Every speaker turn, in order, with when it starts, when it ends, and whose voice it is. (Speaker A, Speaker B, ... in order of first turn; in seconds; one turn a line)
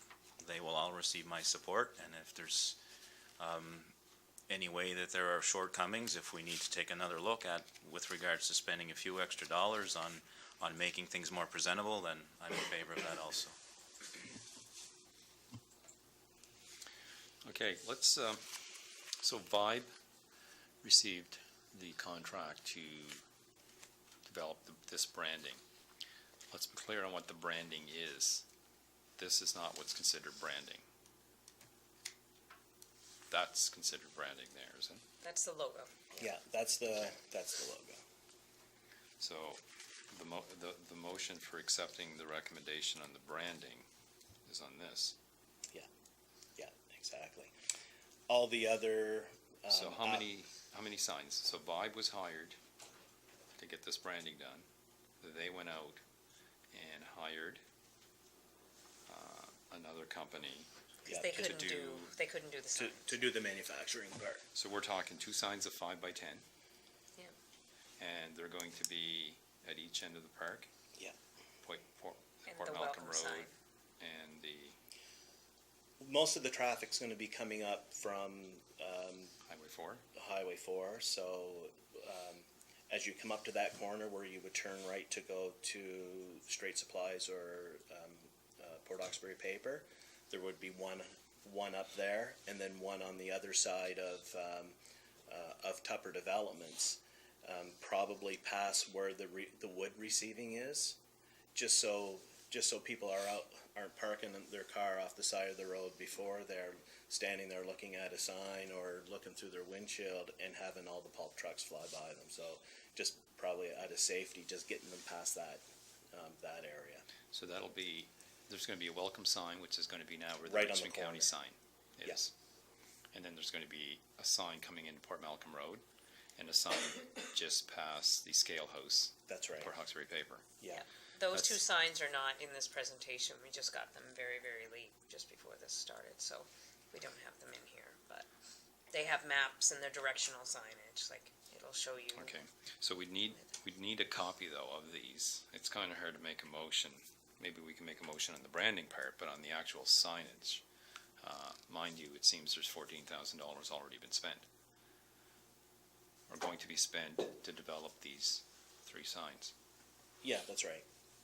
Speaker A: 0.4-2.8
Speaker A: 3.4-3.9
Speaker A: 4.5-13.5
Speaker B: 17.4-19.9
Speaker B: 20.8-23.2
Speaker B: 24.2-25.6
Speaker B: 26.5-28.4
Speaker B: 29.2-30.8
Speaker B: 33.3-35.0
Speaker C: 35.2-35.9
Speaker D: 36.2-38.0
Speaker B: 39.2-43.9
Speaker B: 44.5-45.1
Speaker D: 46.6-47.5
Speaker D: 48.3-50.3
Speaker B: 49.7-52.6
Speaker B: 53.6-54.6
Speaker B: 55.2-56.0
Speaker B: 56.7-57.6
Speaker B: 59.1-60.7
Speaker C: 61.0-63.2
Speaker D: 61.0-61.4
Speaker B: 61.3-62.1
Speaker D: 62.7-64.4
Speaker B: 64.5-66.4
Speaker B: 68.0-70.7
Speaker B: 71.6-73.5
Speaker C: 72.4-73.5
Speaker B: 74.0-74.8
Speaker D: 76.0-79.3
Speaker B: 79.5-80.0
Speaker D: 80.1-94.8
Speaker D: 95.3-101.0
Speaker D: 101.5-117.0
Speaker B: 117.3-122.3
Speaker D: 120.5-121.3
Speaker B: 123.1-125.8
Speaker B: 126.4-130.6
Speaker D: 129.3-129.7
Speaker C: 130.7-138.3
Speaker B: 131.3-131.6
Speaker C: 138.9-142.3
Speaker B: 142.1-150.6
Speaker C: 143.3-143.6
Speaker B: 151.2-154.5
Speaker B: 156.3-159.5
Speaker D: 160.2-160.8